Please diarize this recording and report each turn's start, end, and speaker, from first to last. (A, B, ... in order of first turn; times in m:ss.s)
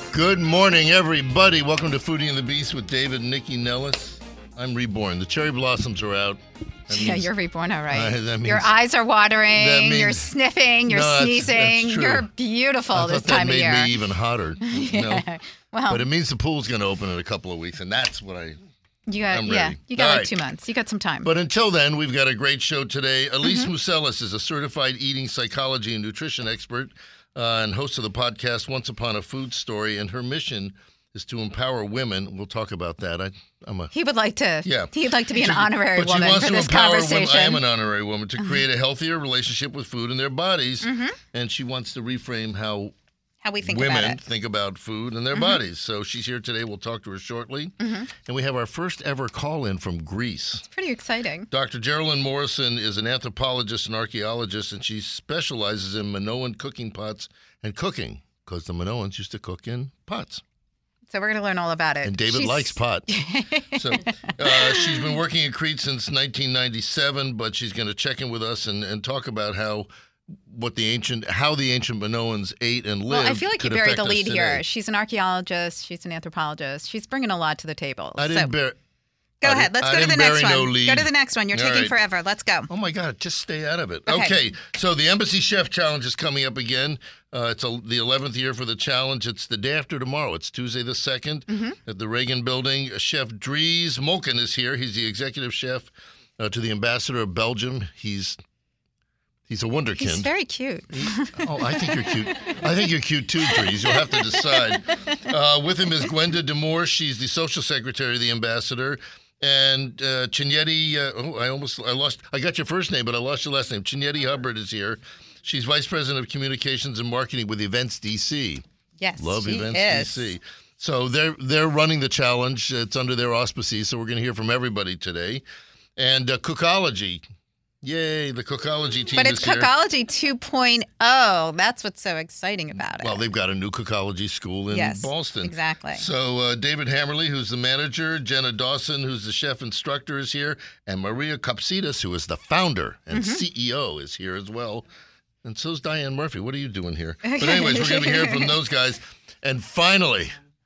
0:00.1-0:07.3 A
0:06.9-0:14.0 B
0:07.9-0:08.7 A
0:09.5-0:10.3 A
0:10.9-0:12.3 A
0:12.9-0:15.2 A
0:14.6-0:16.0 B
0:15.9-0:18.6 A
0:19.1-0:21.3 B
0:19.3-0:20.3 A
0:21.2-0:33.9 A
0:23.4-0:23.7 B
0:33.9-0:37.6 B
0:34.6-0:42.9 A
0:40.8-0:41.2 B
0:43.4-0:44.2 B
0:43.6-0:50.6 A
0:47.8-0:48.1 B
0:50.7-0:51.5 B
0:51.5-1:00.4 A
1:01.1-1:05.1 B
1:02.0-1:03.1 A
1:03.7-1:14.6 A
1:13.1-1:18.5 B
1:18.2-1:18.8 A
1:19.4-1:22.7 B
1:19.4-1:22.0 A
1:22.7-1:38.4 A
1:24.1-1:24.3 B
1:31.5-1:31.8 B
1:39.5-1:40.3 A
1:40.0-1:41.5 B
1:40.9-1:58.6 A
1:43.4-1:44.8 B
1:59.0-2:00.3 B
1:59.2-2:05.4 A
2:06.0-2:07.2 A
2:07.8-2:09.7 A
2:09.1-2:13.2 B
2:13.0-2:24.8 A
2:14.7-2:16.0 B
2:23.1-2:23.4 B
2:25.4-2:30.4 A
2:27.2-2:28.5 B